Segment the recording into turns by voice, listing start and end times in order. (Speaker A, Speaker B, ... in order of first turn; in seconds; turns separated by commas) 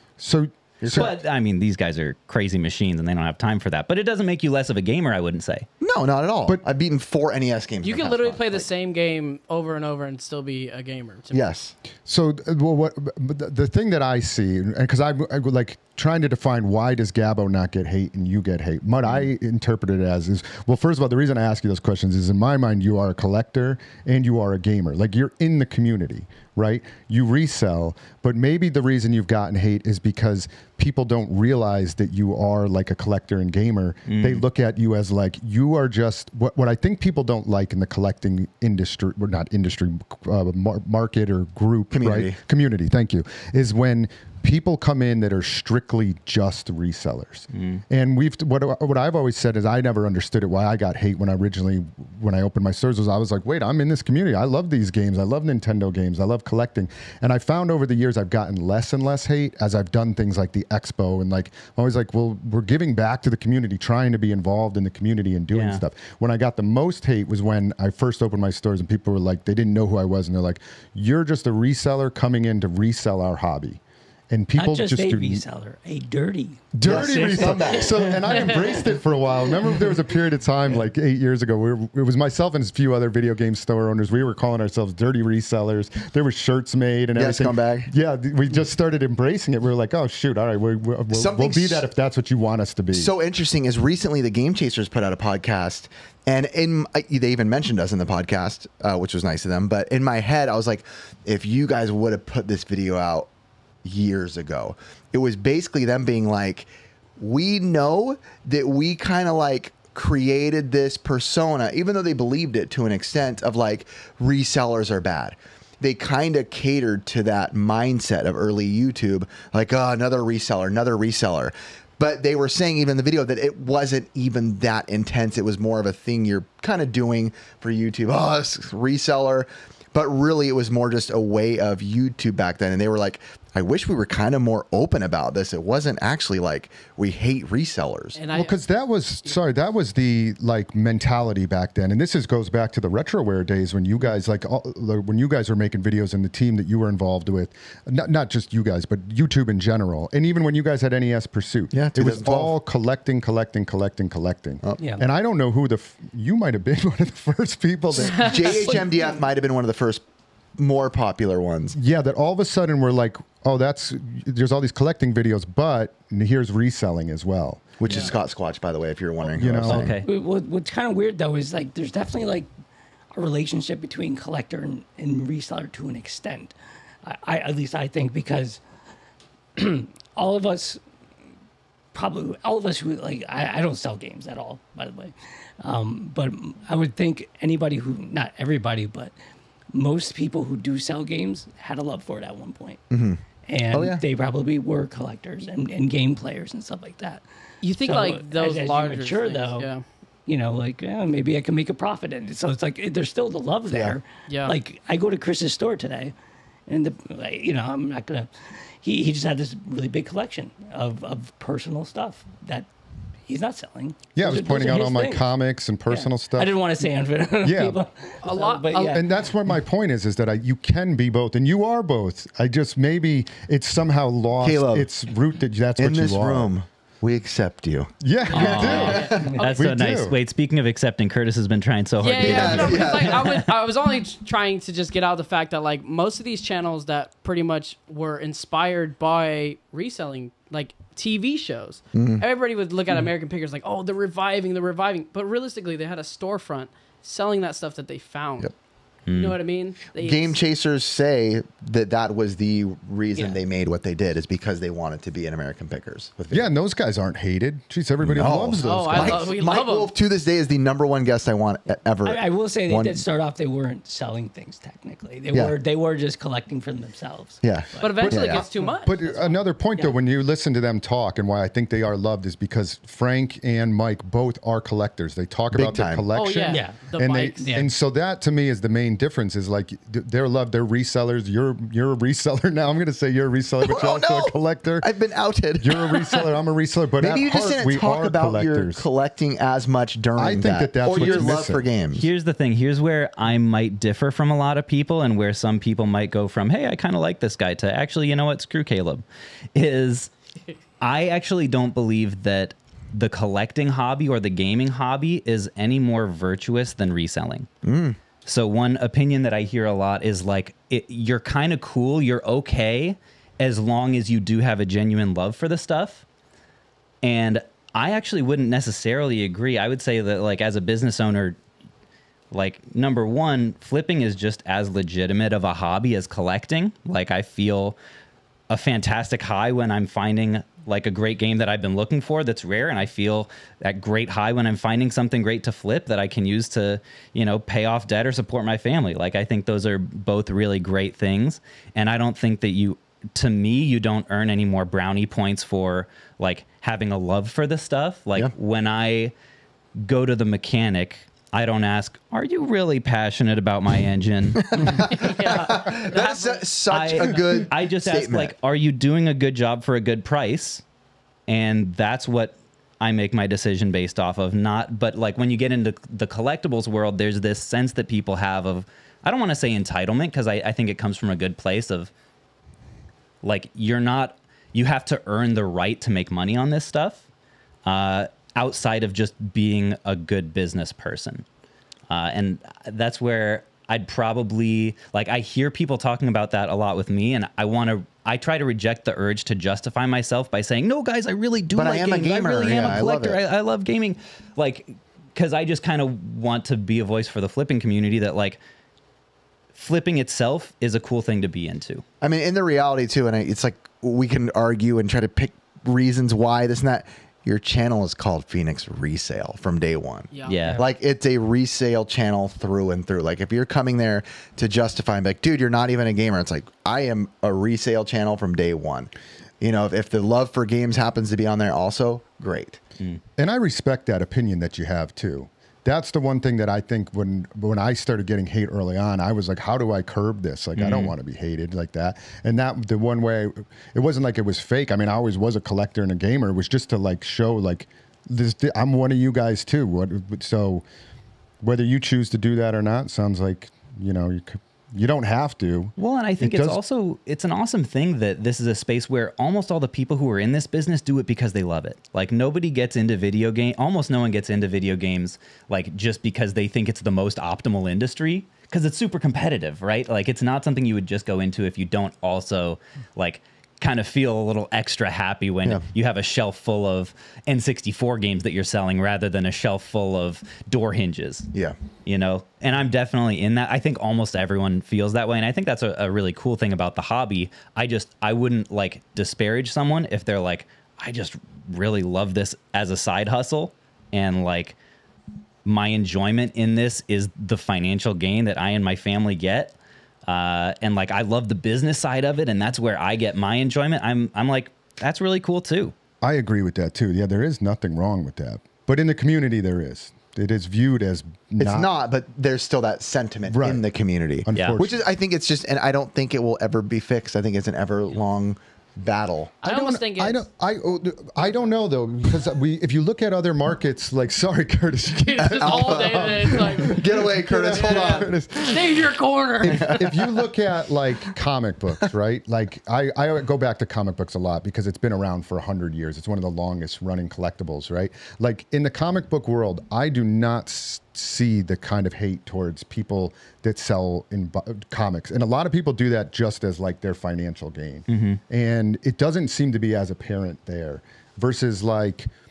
Speaker A: 0.2-1.1, Speaker B: 0.8-1.1, Speaker C: 0.9-5.7, Speaker B: 5.8-8.7, Speaker D: 7.8-11.4, Speaker B: 11.3-11.7, Speaker A: 12.1-75.4, Speaker C: 34.1-34.4, Speaker B: 41.9-42.4, Speaker C: 47.5-47.8, Speaker C: 65.5-65.8, Speaker E: 74.6-78.0, Speaker A: 76.7-93.1, Speaker B: 76.8-78.1, Speaker B: 87.2-87.9, Speaker B: 91.1-91.9, Speaker B: 92.9-103.3, Speaker B: 103.8-138.2, Speaker D: 138.2-138.6, Speaker A: 138.3-158.8, Speaker B: 151.7-152.5, Speaker E: 154.8-155.0, Speaker B: 158.0-160.0, Speaker D: 158.0-159.1, Speaker B: 160.6-161.8, Speaker A: 161.7-167.7, Speaker B: 167.8-170.0, Speaker A: 169.2-169.9, Speaker C: 169.6-170.1, Speaker E: 170.0-172.5, Speaker E: 173.2-178.6, Speaker E: 179.6-180.8, Speaker E: 181.9-189.1, Speaker E: 189.7-192.8, Speaker B: 192.9-193.2, Speaker E: 193.5-197.2, Speaker B: 193.7-194.0, Speaker D: 197.6-199.8, Speaker E: 197.8-199.7, Speaker E: 200.3-206.2, Speaker B: 203.7-204.0, Speaker D: 204.3-204.6, Speaker E: 206.7-208.3, Speaker E: 208.8-212.7, Speaker E: 213.3-215.3, Speaker A: 214.2-216.7, Speaker E: 215.9-219.1, Speaker A: 217.4-217.8, Speaker D: 218.2-219.0, Speaker A: 218.9-226.5, Speaker B: 224.4-224.9, Speaker B: 225.8-229.4, Speaker A: 228.0-230.2, Speaker C: 228.3-233.5, Speaker D: 228.5-229.3, Speaker E: 229.2-229.5, Speaker D: 232.0-248.5, Speaker B: 232.2-233.2, Speaker B: 241.9-242.2, Speaker C: 249.1-249.4, Speaker D: 249.1-250.4, Speaker B: 249.9-256.5, Speaker A: 256.3-259.4, Speaker B: 258.0-263.0, Speaker D: 258.6-259.9, Speaker E: 262.1-270.0, Speaker B: 267.4-268.5, Speaker D: 267.8-269.0, Speaker A: 268.0-284.9, Speaker B: 275.5-276.1, Speaker D: 276.1-277.6, Speaker E: 276.5-277.7, Speaker B: 283.6-286.2, Speaker A: 285.6-288.9, Speaker B: 287.0-292.1, Speaker A: 290.2-291.7, Speaker C: 290.9-291.4, Speaker C: 291.9-300.1, Speaker C: 300.8-307.5, Speaker B: 307.6-308.0, Speaker C: 308.3-316.0, Speaker C: 317.0-321.4, Speaker C: 322.3-327.8, Speaker C: 328.5-349.1, Speaker C: 349.8-354.8, Speaker B: 354.4-358.3, Speaker D: 354.8-356.4, Speaker C: 356.7-360.6, Speaker C: 361.3-371.9, Speaker C: 373.2-377.0, Speaker C: 377.6-381.2, Speaker C: 381.9-398.4, Speaker B: 391.6-393.2, Speaker C: 399.6-401.8, Speaker B: 402.0-422.6, Speaker D: 410.1-410.7, Speaker C: 410.3-410.6, Speaker A: 423.2-440.6, Speaker C: 430.6-430.9, Speaker A: 441.4-446.6, Speaker C: 445.8-471.3, Speaker C: 471.9-484.6, Speaker C: 485.4-489.6, Speaker C: 490.1-495.7, Speaker A: 496.0-501.7, Speaker B: 501.4-509.4, Speaker A: 503.3-503.6, Speaker A: 504.2-504.9, Speaker D: 509.4-510.2, Speaker A: 509.4-518.9, Speaker D: 515.0-519.9, Speaker B: 515.2-518.1, Speaker A: 519.4-542.1, Speaker B: 519.5-520.2, Speaker C: 537.9-538.2